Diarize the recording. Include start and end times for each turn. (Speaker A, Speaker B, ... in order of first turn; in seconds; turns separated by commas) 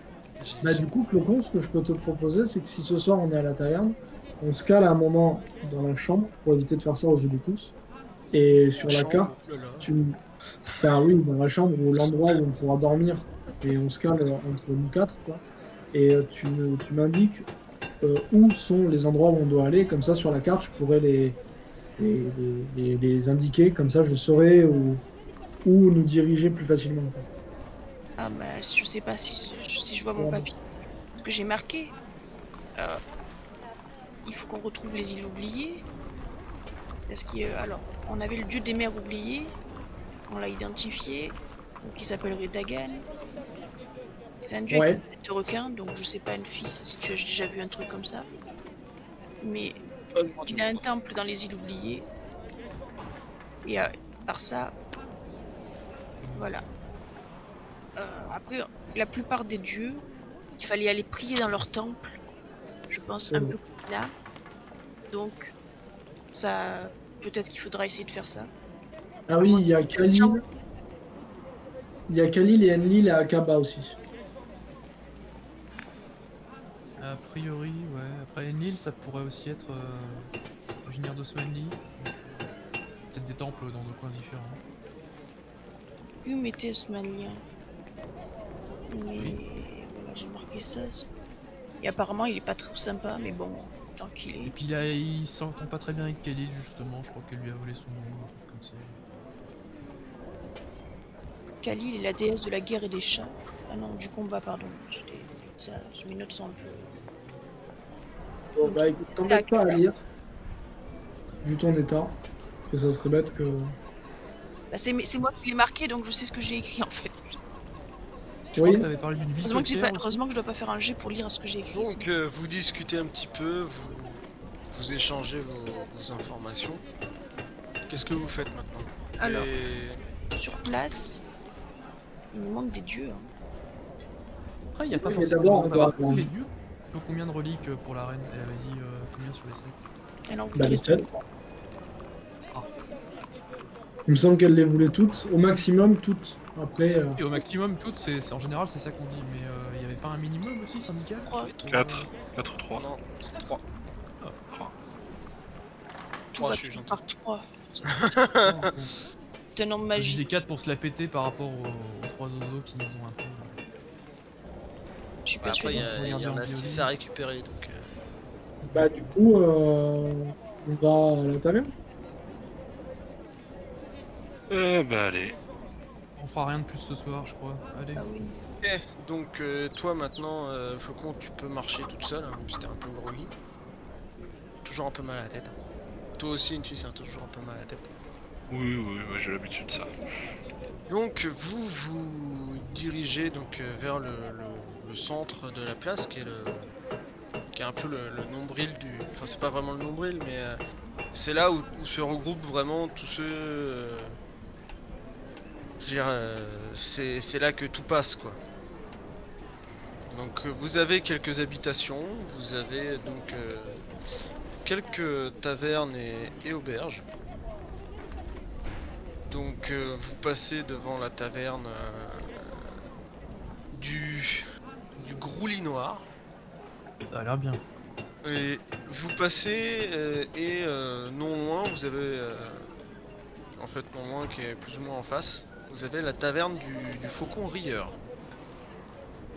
Speaker A: 0.4-0.8, Speaker B: 0.6-7.7, Speaker B: 8.3-10.2, Speaker A: 8.8-9.9, Speaker B: 10.8-17.5, Speaker B: 18.0-21.4, Speaker B: 22.0-25.0, Speaker B: 25.6-27.2, Speaker C: 28.2-30.6, Speaker B: 30.1-30.5, Speaker C: 31.1-31.9, Speaker C: 32.8-33.0, Speaker C: 34.2-35.9, Speaker C: 37.1-39.6, Speaker C: 40.3-43.0, Speaker C: 44.4-48.3, Speaker B: 44.7-45.0, Speaker C: 49.4-49.8, Speaker A: 50.1-50.8, Speaker C: 50.5-52.1, Speaker C: 53.6-54.7, Speaker D: 56.2-56.5, Speaker C: 56.3-56.6, Speaker C: 58.0-62.2, Speaker C: 62.9-64.1, Speaker B: 63.3-63.5, Speaker C: 65.1-65.5, Speaker C: 66.3-68.5, Speaker B: 69.3-70.4, Speaker C: 69.4-70.6, Speaker B: 72.1-74.0, Speaker D: 77.0-80.3, Speaker D: 80.8-82.2, Speaker D: 83.1-84.6, Speaker C: 86.2-87.4, Speaker C: 88.9-91.1, Speaker C: 91.8-94.5, Speaker D: 94.4-99.0, Speaker C: 101.6-107.0, Speaker B: 108.5-110.0, Speaker C: 108.6-109.8, Speaker B: 111.4-112.2, Speaker B: 112.7-113.7, Speaker C: 114.7-117.4, Speaker D: 118.5-120.2, Speaker B: 118.6-118.9, Speaker C: 119.4-122.1, Speaker A: 121.7-124.2, Speaker A: 124.7-126.8, Speaker A: 127.9-130.0, Speaker C: 129.2-129.5, Speaker C: 130.3-131.2, Speaker C: 132.3-133.3, Speaker D: 134.7-139.8, Speaker B: 134.9-136.3, Speaker C: 140.3-141.1, Speaker B: 140.6-141.2, Speaker B: 144.1-147.2, Speaker D: 147.2-151.3, Speaker C: 151.2-151.6, Speaker A: 151.4-152.1, Speaker E: 151.7-152.8, Speaker A: 152.7-153.6, Speaker C: 156.3-158.1, Speaker A: 156.4-157.0, Speaker A: 157.9-158.6, Speaker D: 158.4-158.9, Speaker C: 159.5-160.3, Speaker D: 159.9-163.6, Speaker C: 165.2-165.9, Speaker A: 165.4-167.9, Speaker D: 165.6-166.9, Speaker D: 168.6-169.2, Speaker B: 168.7-171.7, Speaker E: 174.5-175.3, Speaker D: 176.2-178.1, Speaker C: 177.9-178.4, Speaker A: 178.6-183.3, Speaker A: 184.6-185.5, Speaker A: 186.2-187.9, Speaker E: 188.5-189.9, Speaker A: 190.9-196.6, Speaker A: 197.5-200.6, Speaker A: 201.1-204.1, Speaker A: 205.8-208.4, Speaker A: 210.1-213.8, Speaker A: 214.6-217.1, Speaker A: 219.3-222.6, Speaker A: 223.7-224.4, Speaker A: 224.9-226.1, Speaker D: 227.1-227.6, Speaker A: 228.2-232.7, Speaker A: 233.6-238.0